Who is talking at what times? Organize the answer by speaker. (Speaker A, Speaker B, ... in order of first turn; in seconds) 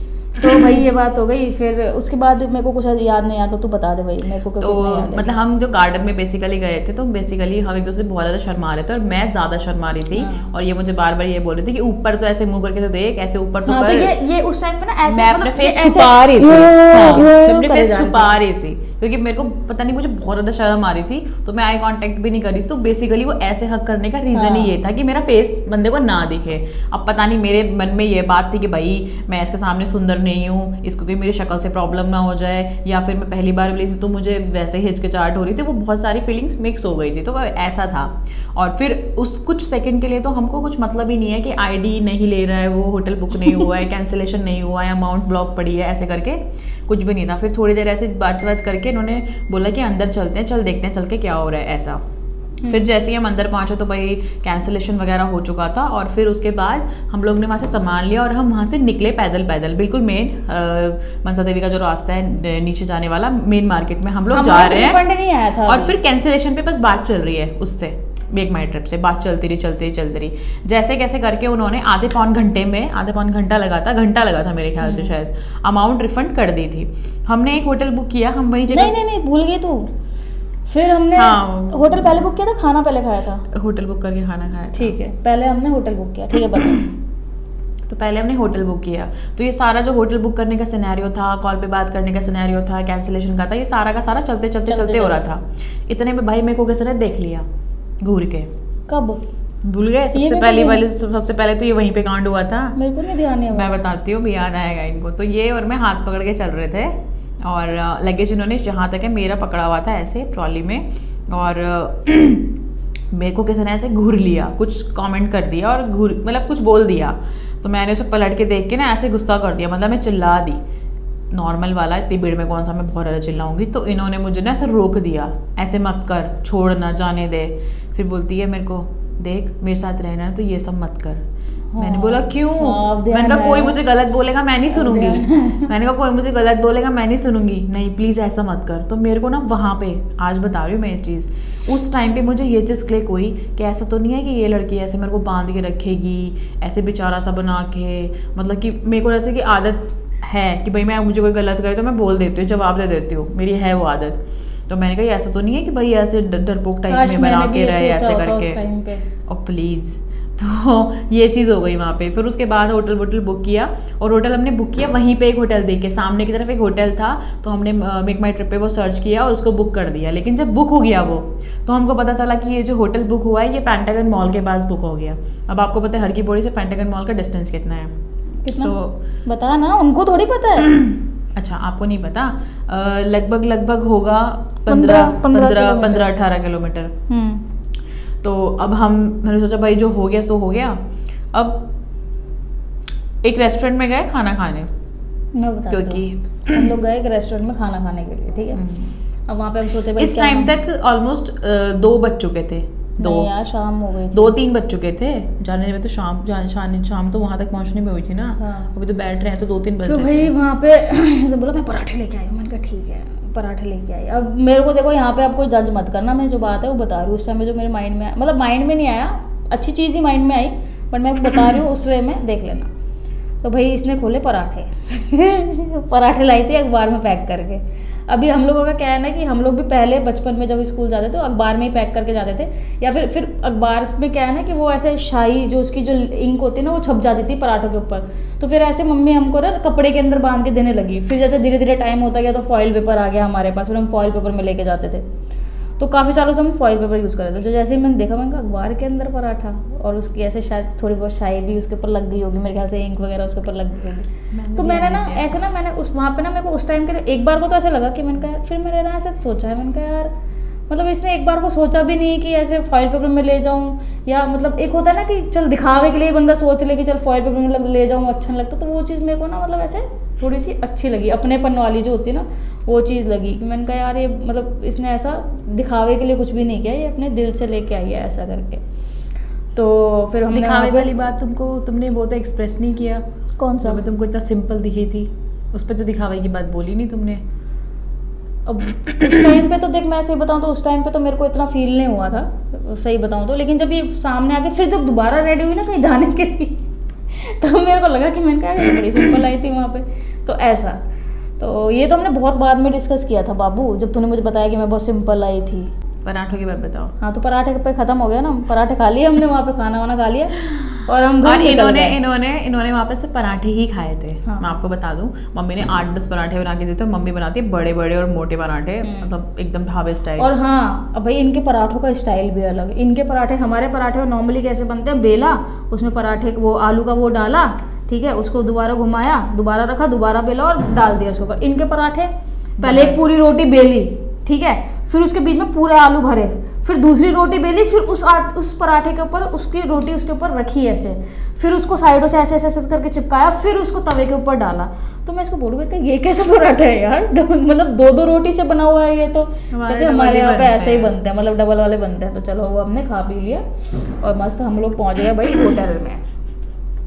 Speaker A: 0.4-5.4, 10.2-10.5, 13.7-18.4, 24.3-24.7, 64.3-66.0, 74.8-75.1, 78.7-79.9, 80.7-83.5, 84.7-86.9, 94.7-95.2, 98.9-99.2, 100.1-100.8, 102.8-103.8, 131.7-133.8, 134.7-135.7, 156.9-159.1, 178.4-180.7, 184.7-186.1, 187.1-187.4, 195.3-198.6, 199.3-200.6, 203.0-204.4, 208.4-208.7, 209.9-222.7, 223.4-245.1, 245.8-260.1, 260.7-278.6, 279.6-280.9, 283.4-283.8, 288.5-300.8, 301.4-305.7, 307.0-312.0, 318.8-319.1, 320.2-356.0
Speaker B: 4.6-14.1, 15.1-52.0, 52.7-65.0, 65.7-79.0, 81.2-82.1, 83.5-85.0, 87.9-97.5, 98.0-98.5, 99.6-102.8, 103.5-112.6, 113.1-120.6, 121.3-131.2, 131.8-154.2, 154.7-158.6, 159.3-177.9, 178.6-179.0, 180.7-186.9, 188.2-190.8, 191.3-191.6, 193.2-194.7, 195.7-196.7, 198.5-199.0, 200.0-203.3, 204.1-210.3, 254.3-255.4, 280.3-283.0, 283.6-287.2, 306.0-306.9, 310.5-320.3, 332.6-333.0, 349.5-350.9